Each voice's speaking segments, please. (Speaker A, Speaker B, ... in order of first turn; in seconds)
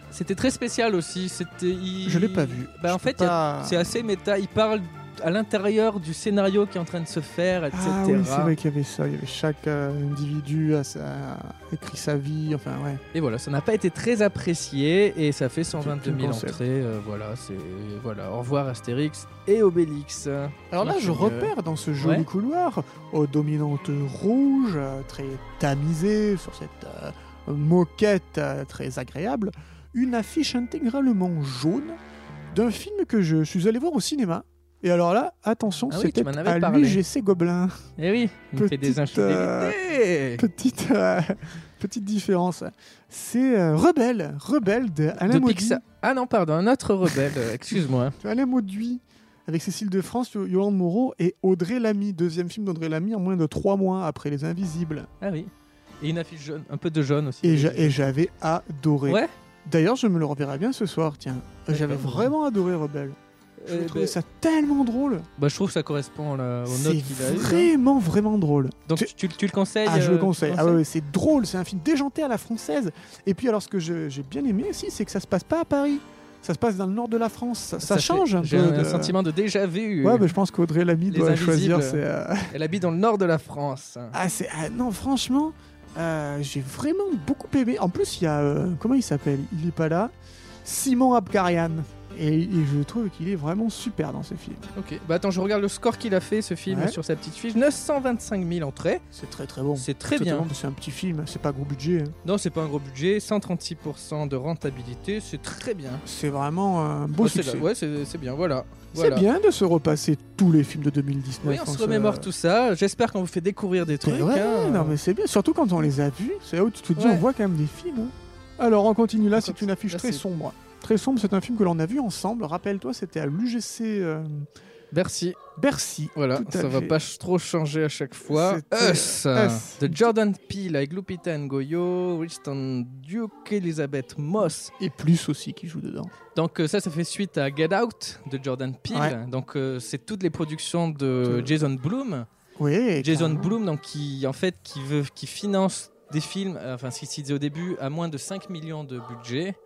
Speaker A: 0.1-8.5, 13.1-22.3, 35.9-37.0, 38.0-40.4, 45.2-48.2, 55.2-58.0, 61.7-62.3, 63.6-64.2, 65.4-67.7, 68.9-70.8, 77.8-80.3, 81.1-84.2, 94.7-99.0, 99.8-100.5, 102.2-106.0, 107.2-109.2, 111.4-115.0, 117.0-117.2, 119.3-120.2, 124.9-125.4, 126.1-134.7, 136.3-142.3, 143.0-149.6
Speaker B: 2.0-3.9, 7.7-13.0, 15.8-16.6, 20.7-32.0, 32.5-37.8, 38.5-39.8, 40.4-45.8, 48.2-55.1, 57.4-65.3, 66.7-69.1, 69.8-79.2, 80.0-82.5, 84.1-90.1, 90.6-94.6, 96.7-97.0, 99.1-102.1, 106.0-107.7, 108.9-112.3, 113.9-124.5, 125.5-127.0, 128.2-130.1, 134.8-136.1, 138.9-139.2, 141.2-141.6, 142.6-143.6